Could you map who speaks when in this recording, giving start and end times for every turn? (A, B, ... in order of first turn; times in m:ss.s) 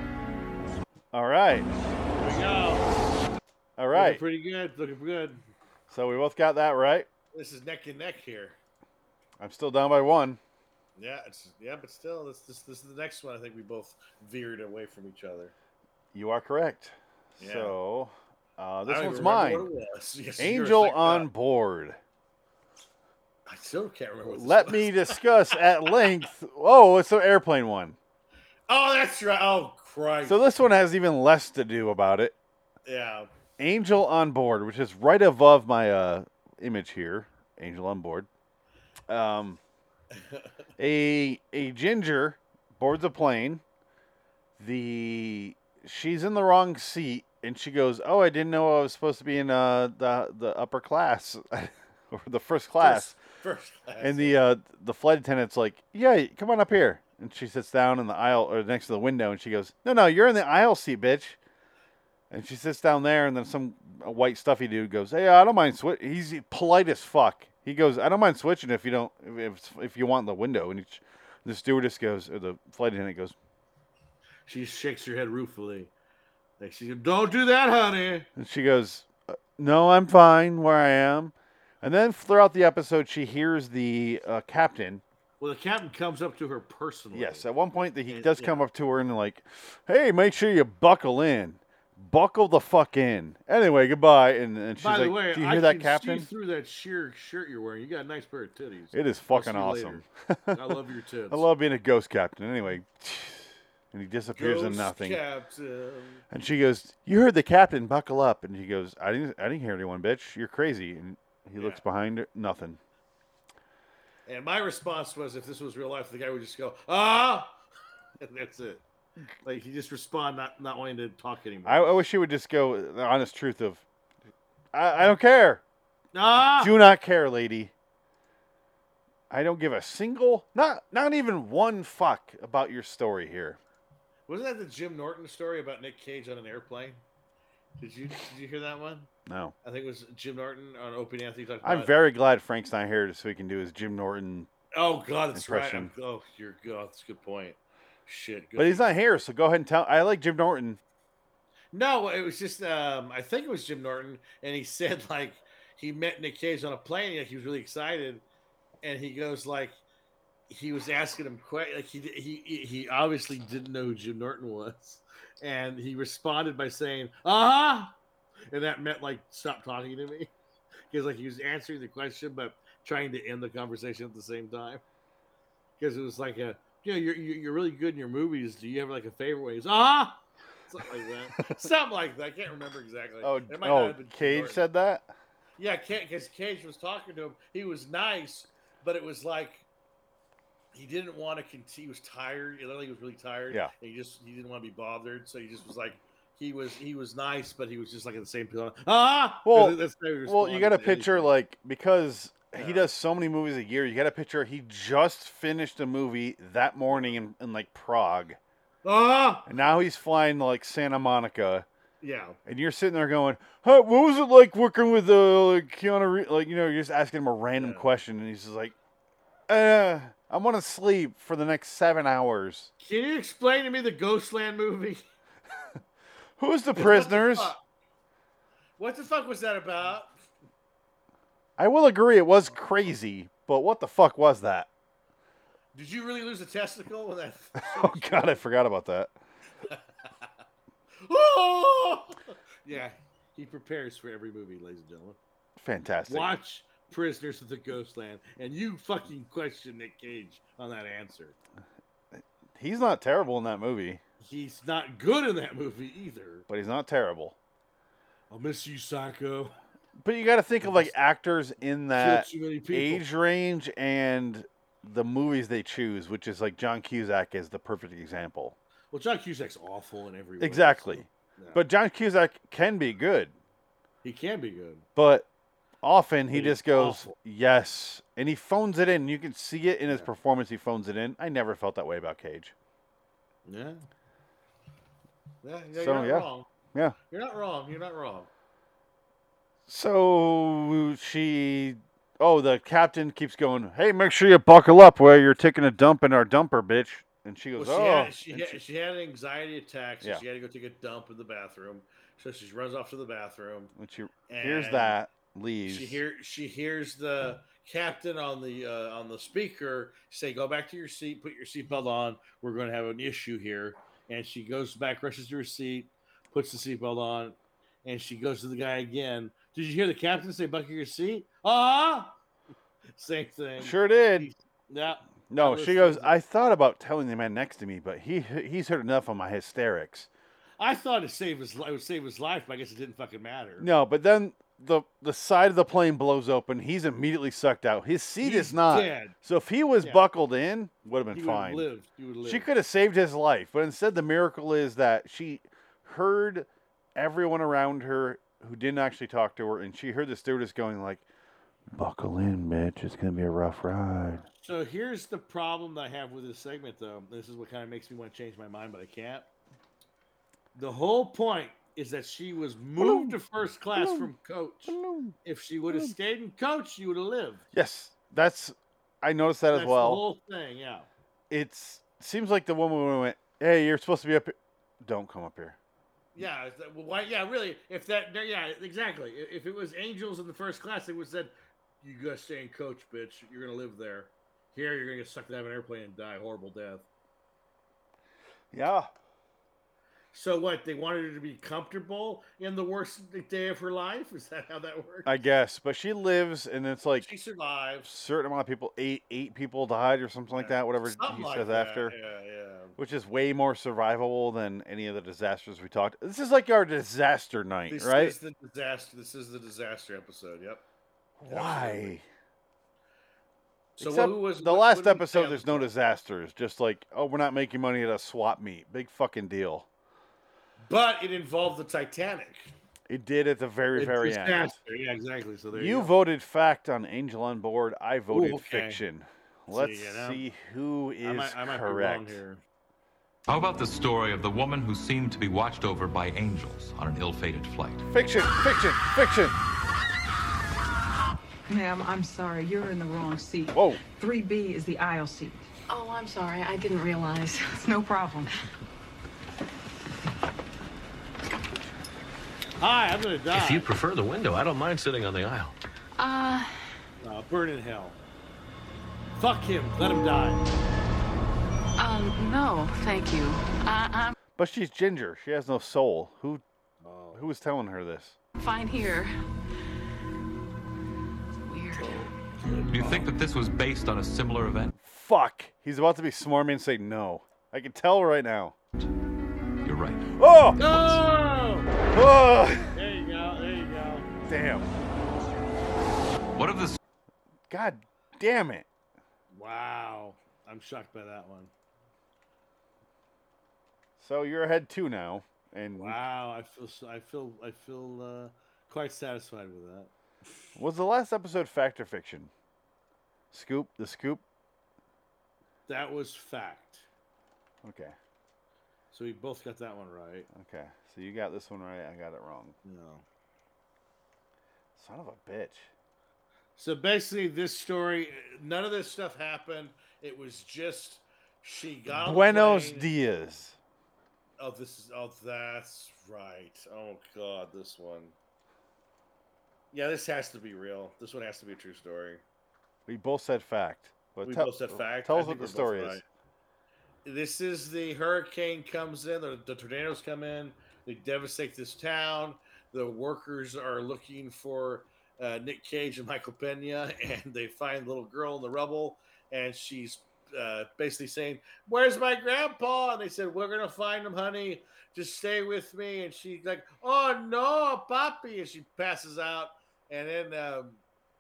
0:01.1-0:01.7 A
0:02.2-0:02.9 B
0:03.8-0:04.2 A
0:03.9-0:05.4 B
0:05.9-0:07.1 A
0:07.3-0:08.6 B
0:09.4-0:10.4 A
0:11.0-0:15.5 B
0:16.1-0:19.7 A
0:17.4-0:17.8 B
0:18.9-0:21.3 B
0:20.4-0:22.0 A
0:23.5-0:26.2 B
0:24.2-0:28.0 A
0:28.7-0:30.4 B
0:30.2-0:32.4 A
0:32.8-0:33.3 B
0:33.6-0:38.3 A
0:39.1-0:39.6 A
0:40.1-0:40.5 B
0:40.8-0:43.6 A
0:44.6-0:53.1 A
0:52.8-0:54.4 B
0:54.0-1:01.4 A
1:02.3-1:13.3 A
1:14.5-1:15.9 B
1:16.6-1:18.3 B
1:18.4-1:25.0 A
1:25.4-1:27.4 B
1:27.1-1:36.3 A
1:28.1-1:28.6 B
1:34.8-1:41.5 B
1:38.9-1:40.8 A
1:41.3-1:45.2 A
1:44.3-1:46.2 B
1:46.3-1:52.8 A
1:54.2-1:57.5 B
1:58.2-1:58.8 B
1:59.4-2:02.0 B
2:01.6-2:03.8 A
2:04.7-2:05.6 A
2:06.1-2:06.8 B
2:06.6-2:07.7 A
2:09.3-2:13.6 A
2:14.3-2:17.0 B
2:17.8-2:19.1 B
2:19.3-2:19.5 A
2:19.6-2:21.9 B
2:21.6-2:24.5 A
2:24.7-2:28.9 B
2:25.3-2:25.9 A
2:28.6-2:30.8 A
2:31.7-2:38.2 B
2:38.8-2:39.8 B
2:40.5-2:47.9 B
2:48.5-2:50.3 B
2:50.9-2:54.8 B
2:55.8-3:04.6 B
3:03.2-3:05.1 A
3:05.6-3:09.6 B
3:10.7-3:21.3 B
3:19.4-3:28.4 A
3:22.5-3:22.9 B
3:28.8-3:29.5 B
3:29.4-3:31.6 A
3:32.0-3:32.4 B
3:32.4-3:38.7 A
3:37.6-3:37.9 B
3:39.5-3:42.7 A
3:42.8-3:45.0 B
3:46.4-3:47.5 A
3:46.7-3:47.6 B
3:48.8-3:50.1 B
3:51.6-3:54.7 A
3:55.7-3:58.4 B
3:57.6-3:59.1 A
3:59.7-4:00.3 B
4:01.0-4:05.2 B
4:05.6-4:06.3 A
4:06.1-4:11.4 B
4:12.1-4:14.0 A
4:14.2-4:16.4 B
4:16.5-4:17.4 A
4:18.3-4:19.6 B
4:20.0-4:28.6 A
4:20.6-4:20.9 B
4:21.9-4:23.1 B
4:28.9-4:31.6 B
4:30.4-4:33.3 A
4:34.0-4:34.8 B
4:35.0-4:35.3 A
4:35.8-4:42.5 A
4:36.3-4:37.1 B
4:43.4-4:43.8 B
4:45.4-4:46.5 B
4:45.7-4:47.0 A
4:47.1-4:48.3 B
4:49.7-4:58.6 A
4:57.6-5:03.7 B
5:03.8-5:06.0 A
5:04.3-5:05.0 B
5:05.7-5:22.1 B
5:23.0-5:26.1 B
5:23.6-5:24.3 A
5:25.3-5:30.1 A
5:30.6-5:33.7 B
5:33.6-5:41.6 A
5:38.2-5:39.1 B
5:39.8-5:40.0 B
5:41.1-5:42.5 B
5:42.2-5:51.0 A
5:51.7-5:54.2 A
5:54.4-5:59.3 B
6:00.5-6:07.4 B
6:02.8-6:03.2 A
6:03.7-6:04.1 A
6:04.7-6:05.2 A
6:05.7-6:05.9 A
6:07.5-6:10.0 A
6:09.5-6:10.9 B
6:11.3-6:15.6 A
6:16.1-6:26.8 B
6:28.5-6:28.9 A
6:30.1-6:35.1 B
6:35.0-6:37.1 A
6:37.0-6:37.9 B
6:37.8-6:41.9 A
6:40.3-6:42.8 B
6:42.8-6:48.2 A
6:47.7-6:50.6 B
6:51.2-6:52.0 A
6:51.2-6:52.0 B
6:53.8-6:55.7 B
6:53.8-6:59.7 A
7:00.6-7:02.5 B
7:02.9-7:04.6 A
7:03.7-7:05.9 B
7:05.5-7:12.2 A
7:08.1-7:08.8 B
7:09.5-7:10.2 B
7:11.0-7:12.4 B
7:13.3-7:17.8 C
7:17.9-7:19.4 A
7:21.5-7:25.4 D
7:23.5-7:23.8 A
7:25.7-7:27.6 E
7:27.6-7:28.3 D
7:32.6-7:33.7 B
7:33.3-7:35.5 F
7:36.0-7:36.7 E
7:37.0-7:38.0 B
7:39.2-7:40.4 B
7:41.8-7:44.2 E
7:44.4-7:46.4 A
7:46.8-7:47.2 B
7:47.1-7:48.2 A
7:48.4-7:49.1 E
7:51.4-7:52.0 E
7:51.8-7:53.1 B
7:52.7-7:54.7 C
7:54.7-7:58.6 A
7:59.6-8:00.1 C
8:00.1-8:00.6 A
8:00.6-8:01.7 B
8:00.6-8:01.0 C
8:01.9-8:02.7 A
8:02.7-8:04.1 B
8:04.2-8:04.7 A
8:06.3-8:06.8 C
8:07.5-8:08.6 A
8:09.3-8:11.5 B
8:14.0-8:16.0 A
8:15.8-8:19.9 B
8:20.6-8:22.3 A
8:23.3-8:24.2 A
8:25.7-8:26.8 B
8:27.6-8:28.0 A
8:28.9-8:30.3 B
8:30.3-8:32.6 A
8:32.6-8:33.0 B
8:34.7-8:35.7 A
8:36.6-8:42.9 B
8:41.9-8:43.6 A
8:44.4-8:48.1 B
8:49.7-8:52.2 B
8:52.9-8:56.0 A
8:54.2-8:56.0 B
8:57.0-9:20.8 B